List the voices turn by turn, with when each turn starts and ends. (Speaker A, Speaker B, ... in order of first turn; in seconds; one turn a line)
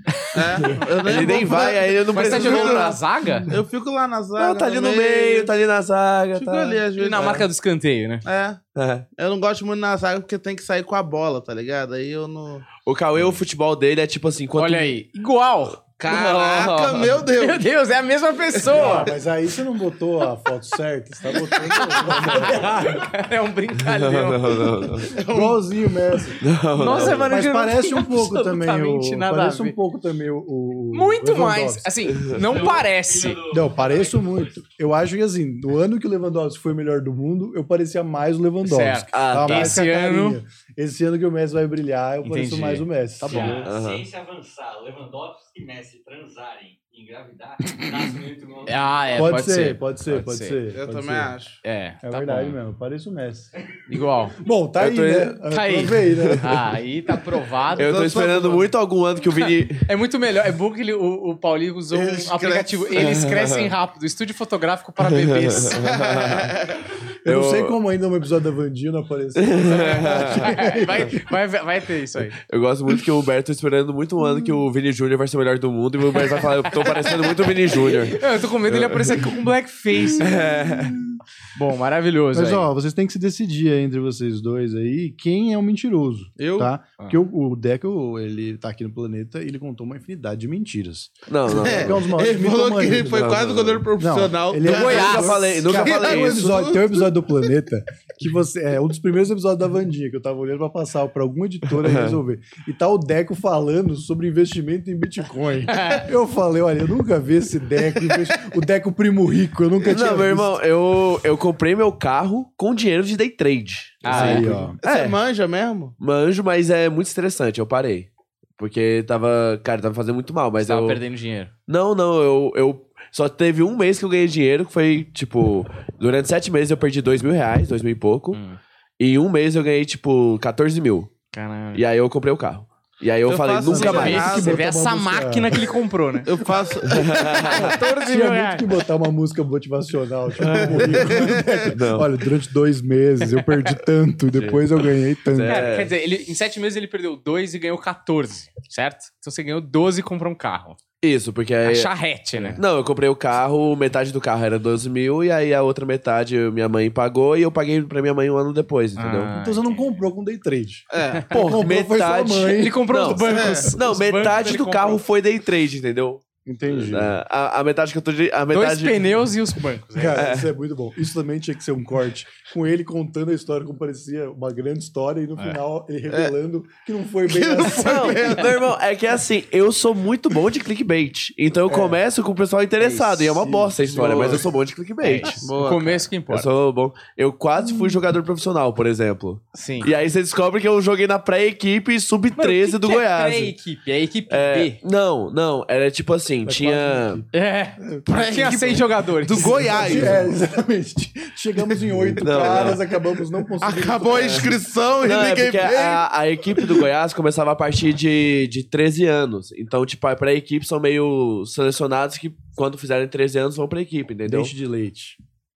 Speaker A: 0.3-2.9
Speaker B: 0.6-3.5
Speaker C: 2.1-3.5
Speaker A: 3.5-5.5
Speaker B: 4.3-7.4
Speaker A: 6.3-7.5
Speaker C: 7.0-8.2
Speaker A: 8.2-8.6
Speaker B: 8.7-9.1
Speaker A: 9.2-12.7
Speaker B: 12.8-14.9
Speaker C: 14.6-15.8
Speaker A: 16.0-17.7
Speaker B: 16.0-17.2
Speaker C: 17.3-19.1
Speaker A: 18.6-19.1
Speaker D: 18.7-23.0
Speaker C: 21.3-25.0
Speaker B: 22.2-22.6
Speaker B: 23.8-25.1
Speaker A: 25.1-25.6
Speaker D: 25.3-31.9
Speaker B: 26.4-27.4
Speaker C: 26.7-29.8
Speaker C: 30.9-33.4
Speaker B: 32.1-32.7
Speaker E: 32.3-34.6
Speaker D: 33.5-43.7
Speaker C: 38.6-40.4
Speaker B: 39.1-39.8
Speaker C: 42.2-43.7
Speaker E: 43.2-49.6
Speaker B: 43.6-44.0
Speaker C: 48.7-50.6
Speaker D: 49.1-51.3
Speaker A: 50.7-51.6
Speaker C: 51.6-52.6
Speaker D: 52.0-53.5
Speaker C: 53.9-54.4
Speaker D: 54.4-56.7
Speaker B: 54.8-55.4
Speaker C: 55.5-58.0
Speaker B: 56.2-56.4
Speaker A: 57.7-58.7
Speaker B: 57.7-59.9
Speaker C: 59.4-65.8
Speaker A: 61.9-63.1
Speaker B: 63.0-63.7
Speaker B: 65.0-66.5
Speaker A: 65.8-66.8
Speaker D: 67.2-71.3
Speaker B: 67.2-67.8
Speaker B: 69.3-70.5
Speaker C: 69.7-72.4
Speaker B: 72.4-79.4
Speaker C: 76.3-77.1
Speaker C: 77.7-80.5
Speaker D: 80.0-81.2
Speaker B: 80.2-81.0
Speaker C: 81.5-82.7
Speaker D: 82.3-93.4
Speaker A: 86.4-86.7
Speaker B: 91.3-92.0
Speaker A: 91.5-97.1
Speaker B: 93.1-93.9
Speaker D: 94.0-110.6
Speaker C: 94.7-95.3
Speaker B: 94.7-96.6
Speaker B: 101.8-102.2
Speaker C: 105.7-106.0
Speaker B: 109.8-115.2
Speaker C: 114.0-114.7
Speaker D: 114.0-114.8
Speaker A: 114.8-115.9
Speaker B: 116.0-121.0
Speaker C: 120.6-121.5
Speaker B: 121.7-128.4
Speaker C: 128.3-128.6
Speaker B: 129.0-131.1
Speaker C: 131.3-131.8
Speaker B: 131.7-134.3
Speaker A: 133.2-134.6
Speaker D: 133.6-135.8
Speaker C: 133.7-136.3
Speaker A: 136.2-137.8
Speaker B: 136.8-137.8
Speaker C: 137.4-138.7
Speaker D: 137.7-145.7
Speaker B: 140.4-142.1
Speaker A: 140.5-141.7
Speaker B: 144.3-144.6
Speaker B: 145.3-145.9
Speaker C: 145.4-150.8
Speaker B: 151.0-151.9
Speaker C: 151.6-152.6
Speaker D: 152.3-152.6
Speaker B: 152.6-159.3
Speaker C: 159.0-159.8
Speaker D: 159.3-163.8
Speaker A: 160.9-161.3
Speaker B: 161.3-169.2
Speaker C: 162.5-165.0
Speaker A: 163.3-163.7
Speaker D: 166.4-167.2
Speaker C: 168.5-170.3
Speaker D: 169.9-178.4
Speaker B: 170.2-170.5
Speaker A: 177.3-178.6
Speaker B: 177.6-185.5
Speaker D: 181.7-182.0
Speaker C: 182.8-183.4
Speaker D: 183.3-184.5
Speaker C: 185.0-186.5
Speaker A: 185.2-186.1
Speaker B: 186.3-193.5
Speaker D: 187.6-188.0
Speaker C: 189.5-189.9
Speaker C: 192.3-194.8
Speaker B: 194.3-197.2
Speaker D: 196.4-197.3
Speaker C: 197.3-200.2
Speaker D: 197.8-198.1
Speaker A: 198.1-200.2
Speaker D: 199.3-204.5
Speaker B: 202.2-202.8
Speaker A: 202.3-202.7
Speaker A: 203.6-206.0
Speaker B: 204.1-214.5
Speaker D: 214.2-215.2